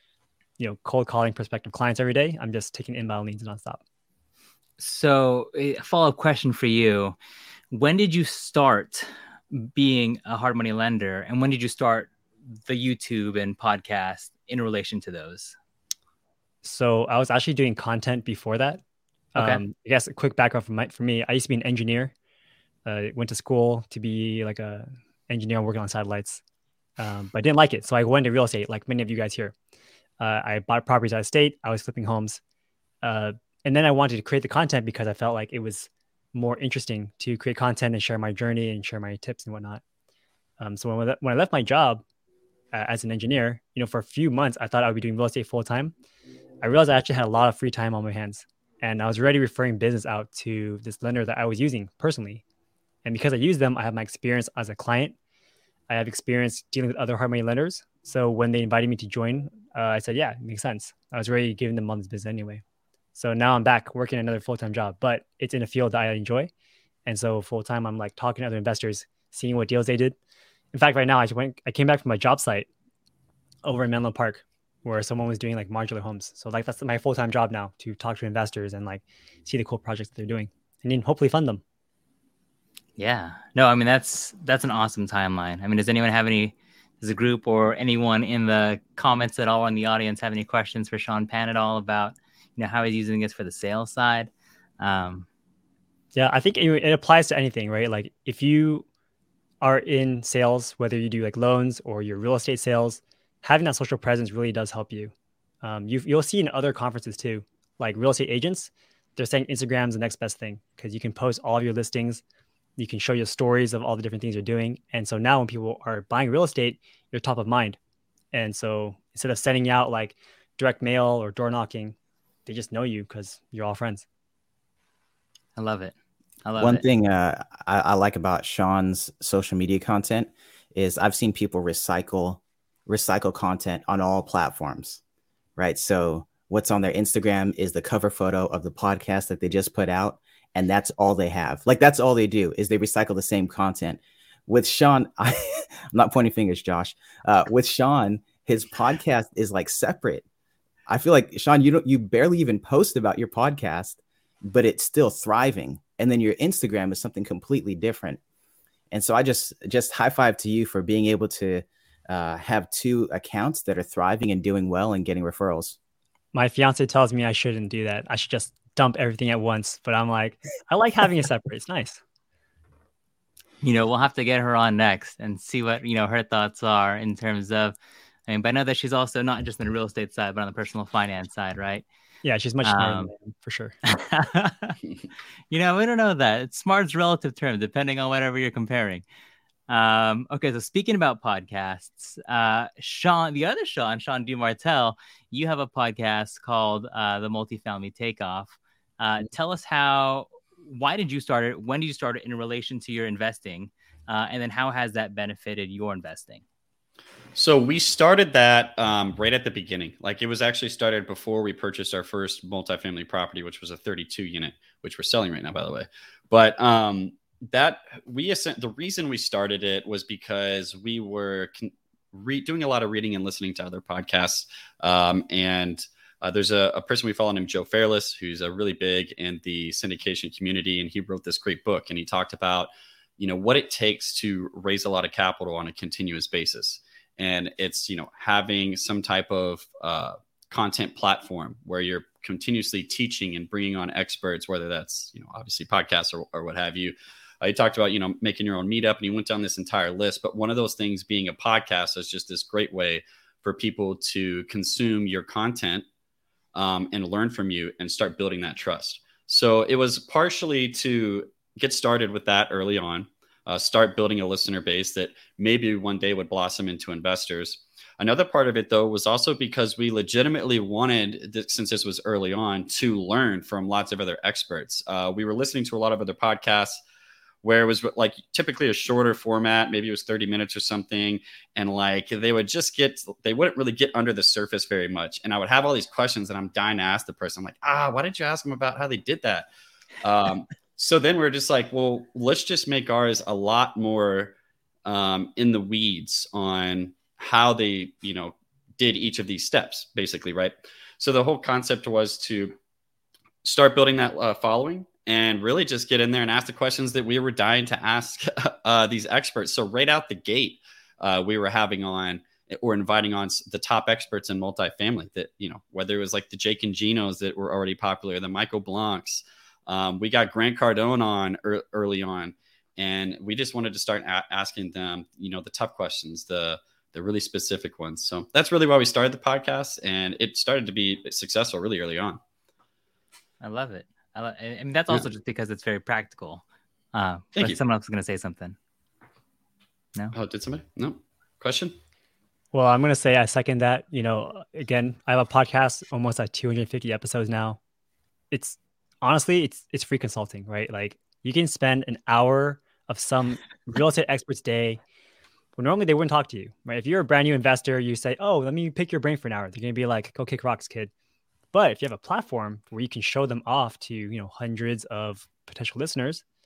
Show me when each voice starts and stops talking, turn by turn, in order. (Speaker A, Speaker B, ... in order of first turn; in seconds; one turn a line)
Speaker A: 0.6-3.8
Speaker B: 4.8-7.2
Speaker B: 7.7-12.1
Speaker B: 12.7-15.6
Speaker A: 16.6-18.8
Speaker A: 19.3-22.1
Speaker B: 19.4-19.6
Speaker A: 22.8-26.4
Speaker A: 27.0-29.5
Speaker A: 30.2-32.4
Speaker A: 33.0-39.8
Speaker A: 40.6-42.0
Speaker A: 42.7-45.9
Speaker A: 46.6-52.4
Speaker A: 53.0-55.2
Speaker A: 55.9-62.6
Speaker A: 63.1-66.5
Speaker A: 67.0-70.2
Speaker A: 70.7-72.7
Speaker A: 73.6-81.6
Speaker B: 83.0-95.3
Speaker A: 96.1-98.8
Speaker A: 99.6-112.2
Speaker A: 112.8-117.8
Speaker A: 118.3-124.0
Speaker B: 125.5-126.8
Speaker C: 126.6-135.0
Speaker C: 135.6-150.2
Speaker C: 150.9-158.2
Speaker C: 158.9-165.8
Speaker A: 166.3-172.0
Speaker B: 173.6-177.7
Speaker B: 178.3-181.8
Speaker A: 182.2-183.7
Speaker B: 182.6-183.1
Speaker B: 183.9-184.8
Speaker B: 185.5-189.0
Speaker B: 189.7-206.4
Speaker D: 207.3-255.8
Speaker D: 256.5-276.8
Speaker D: 277.4-289.5
Speaker D: 290.0-302.6
Speaker D: 303.4-332.2
Speaker B: 333.4-338.6
Speaker D: 340.1-341.8
Speaker A: 342.5-347.6
Speaker A: 348.3-354.8
Speaker A: 355.6-360.9
Speaker A: 361.5-366.2